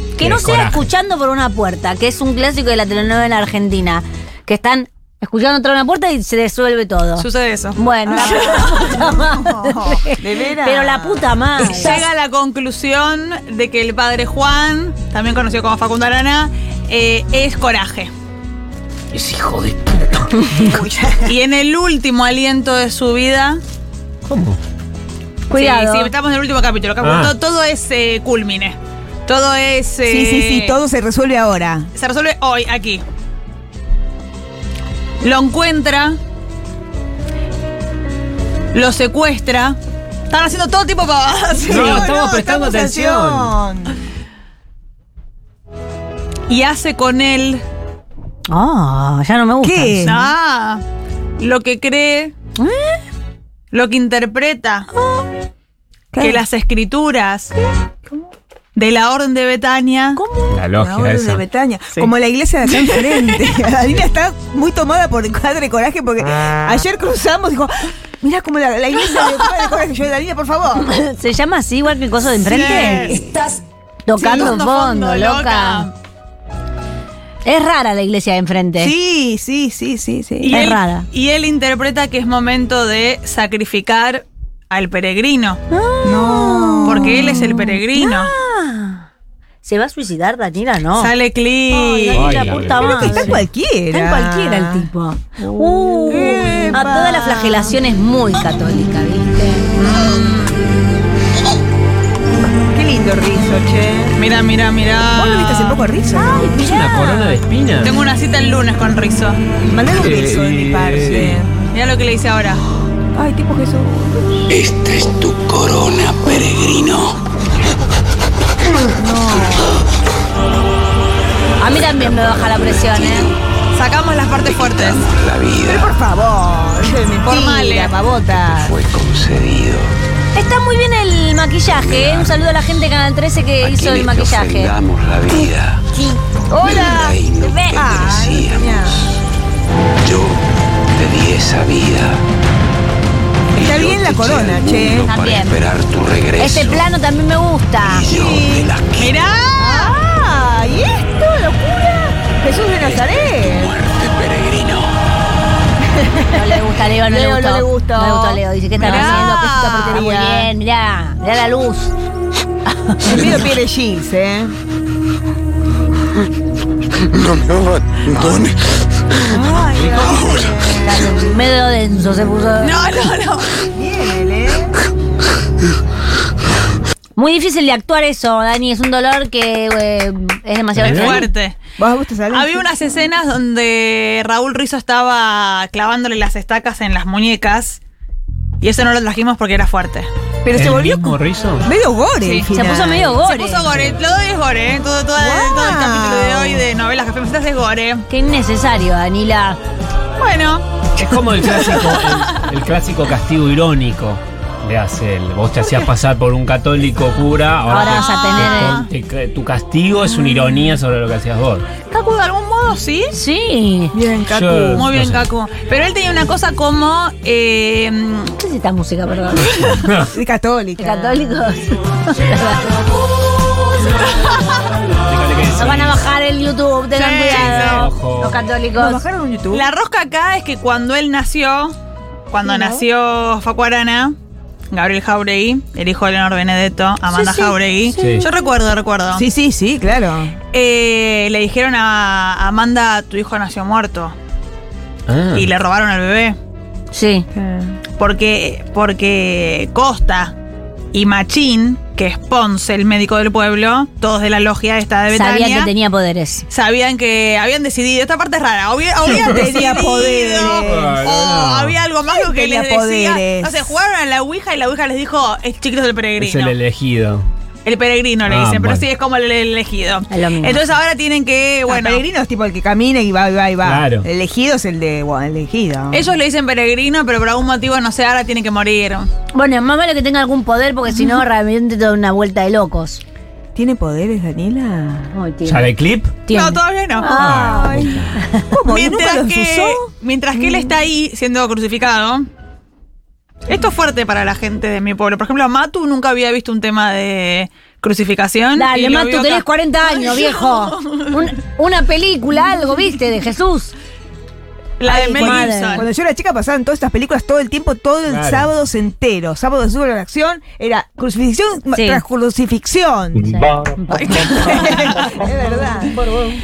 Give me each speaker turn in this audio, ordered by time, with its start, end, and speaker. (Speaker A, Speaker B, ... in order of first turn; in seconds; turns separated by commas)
Speaker A: 0.2-12.0, Speaker B: 0.2-0.9, Speaker C: 7.2-9.0, Speaker D: 8.1-12.0, Speaker C: 11.7-18.1, Speaker B: 19.1-20.6, Speaker D: 20.6-21.3, Speaker C: 21.2-23.6, Speaker B: 24.2-24.6, Speaker A: 25.5-26.1, Speaker C: 25.5-30.8, Speaker B: 27.0-27.3, Speaker D: 30.1-31.9, Speaker C: 31.9-33.0, Speaker C: 35.2-36.2, Speaker C: 38.7-39.8, Speaker C: 40.3-42.1, Speaker D: 41.6-44.0, Speaker B: 41.7-43.5, Speaker C: 46.5-47.6, Speaker A: 48.5-50.2, Speaker D: 49.6-50.2, Speaker C: 50.0-50.8, Speaker C: 51.4-52.3, Speaker A: 52.6-53.0, Speaker C: 53.7-54.9, Speaker D: 56.1-56.4, Speaker C: 56.2-57.5, Speaker C: 58.7-60.2, Speaker A: 60.2-60.5, Speaker B: 60.5-61.4, Speaker D: 60.7-70.9, Speaker C: 62.7-63.4, Speaker A: 70.8-73.2, Speaker C: 72.4-73.2, Speaker D: 72.9-73.5, Speaker A: 74.0-75.9, Speaker D: 74.2-74.5, Speaker C: 74.2-75.9, Speaker A: 77.4-78.9, Speaker D: 78.8-80.7, Speaker C: 80.4-85.6, Speaker A: 80.5-81.1, Speaker A: 85.7-89.0, Speaker D: 86.0-87.6, Speaker C: 86.8-88.3, Speaker A: 89.6-91.1, Speaker C: 91.0-92.3, Speaker A: 91.7-99.7, Speaker B: 92.1-93.4, Speaker D: 92.7-97.8, Speaker C: 99.8-100.6, Speaker D: 102.7-104.2, Speaker C: 104.2-105.8, Speaker D: 105.1-106.7, Speaker A: 106.2-107.4, Speaker B: 106.3-107.9, Speaker C: 107.8-109.4, Speaker D: 109.7-111.5, Speaker B: 109.9-111.4, Speaker C: 111.7-112.6, Speaker D: 113.1-114.4, Speaker E: 114.5-117.2, Speaker D: 118.9-119.7, Speaker A: 121.6-123.3, Speaker E: 121.6-123.4, Speaker C: 123.7-125.0, Speaker E: 124.4-125.9, Speaker D: 125.7-128.7, Speaker C: 127.2-127.9, Speaker E: 128.3-129.9, Speaker A: 130.3-134.7, Speaker E: 131.8-132.3, Speaker E: 133.6-135.8, Speaker D: 136.5-139.0, Speaker E: 136.6-139.1, Speaker A: 137.4-137.8, Speaker E: 140.0-140.4, Speaker E: 140.9-142.2, Speaker D: 143.5-145.1, Speaker E: 143.6-146.8, Speaker A: 145.0-145.6, Speaker A: 146.4-148.0, Speaker E: 147.8-149.2, Speaker D: 148.1-148.7, Speaker C: 149.0-149.9, Speaker D: 149.6-153.7, Speaker E: 152.8-154.9, Speaker D: 155.9-160.5, Speaker A: 156.3-161.9, Speaker C: 158.8-160.0, Speaker A: 162.9-163.2, Speaker D: 163.0-164.5, Speaker D: 169.2-171.4, Speaker E: 170.0-170.4, Speaker A: 171.0-172.7, Speaker C: 172.6-173.5, Speaker D: 173.7-174.8, Speaker A: 177.2-181.3, Speaker B: 180.8-181.2, Speaker C: 180.8-181.6, Speaker D: 181.8-182.7, Speaker C: 182.3-187.8, Speaker C: 188.6-190.1, Speaker D: 190.4-193.2, Speaker B: 190.5-191.6, Speaker C: 192.2-192.5, Speaker A: 192.5-193.7, Speaker C: 193.2-198.0, Speaker B: 193.7-194.0, Speaker D: 195.1-196.7, Speaker A: 198.1-199.6, Speaker C: 200.2-200.7, Speaker B: 201.0-211.7, Speaker C: 201.5-201.9, Speaker A: 207.7-208.8, Speaker C: 207.8-208.9, Speaker C: 211.8-213.1, Speaker A: 213.1-213.9, Speaker D: 213.9-214.8, Speaker B: 214.3-215.2, Speaker C: 214.7-218.3, Speaker A: 218.4-219.8, Speaker B: 219.8-220.1, Speaker D: 220.1-221.3, Speaker A: 220.8-222.6, Speaker B: 225.1-226.0, Speaker A: 225.6-229.0, Speaker C: 226.9-227.9, Speaker B: 227.3-228.4, Speaker D: 228.8-229.7, Speaker C: 229.5-231.8, Speaker C: 232.3-234.2, Speaker C: 234.7-239.2, Speaker A: 237.1-238.2, Speaker B: 237.9-238.3, Speaker D: 239.1-240.4, Speaker C: 240.5-244.1, Speaker B: 245.1-245.5, Speaker C: 245.3-246.4, Speaker A: 246.9-247.3, Speaker D: 247.3-247.8, Speaker C: 248.0-250.3, Speaker C: 250.9-255.7, Speaker A: 255.1-256.4, Speaker C: 256.5-266.5, Speaker D: 259.0-261.0, Speaker B: 259.1-259.6, Speaker B: 260.5-261.8, Speaker D: 262.1-263.7, Speaker B: 266.2-267.2, Speaker C: 267.6-272.0, Speaker B: 268.2-268.8, Speaker A: 270.1-270.6, Speaker D: 271.7-276.1, Speaker B: 273.6-274.1, Speaker C: 275.9-279.1, Speaker A: 279.3-283.0, Speaker D: 283.5-285.1, Speaker A: 285.1-285.6, Speaker B: 285.4-286.2, Speaker A: 286.3-288.4, Speaker C: 286.3-287.1, Speaker B: 287.1-288.2, Speaker D: 287.2-290.7, Speaker C: 288.7-292.3, Speaker C: 293.5-301.3, Speaker A: 298.6-303.7, Speaker C: 304.8-305.9, Speaker D: 304.9-313.4, Speaker A: 304.9-305.8, Speaker B: 308.1-308.5, Speaker A: 311.7-312.0, Speaker A: 313.3-314.6, Speaker C: 313.9-315.1, Speaker D: 314.3-316.0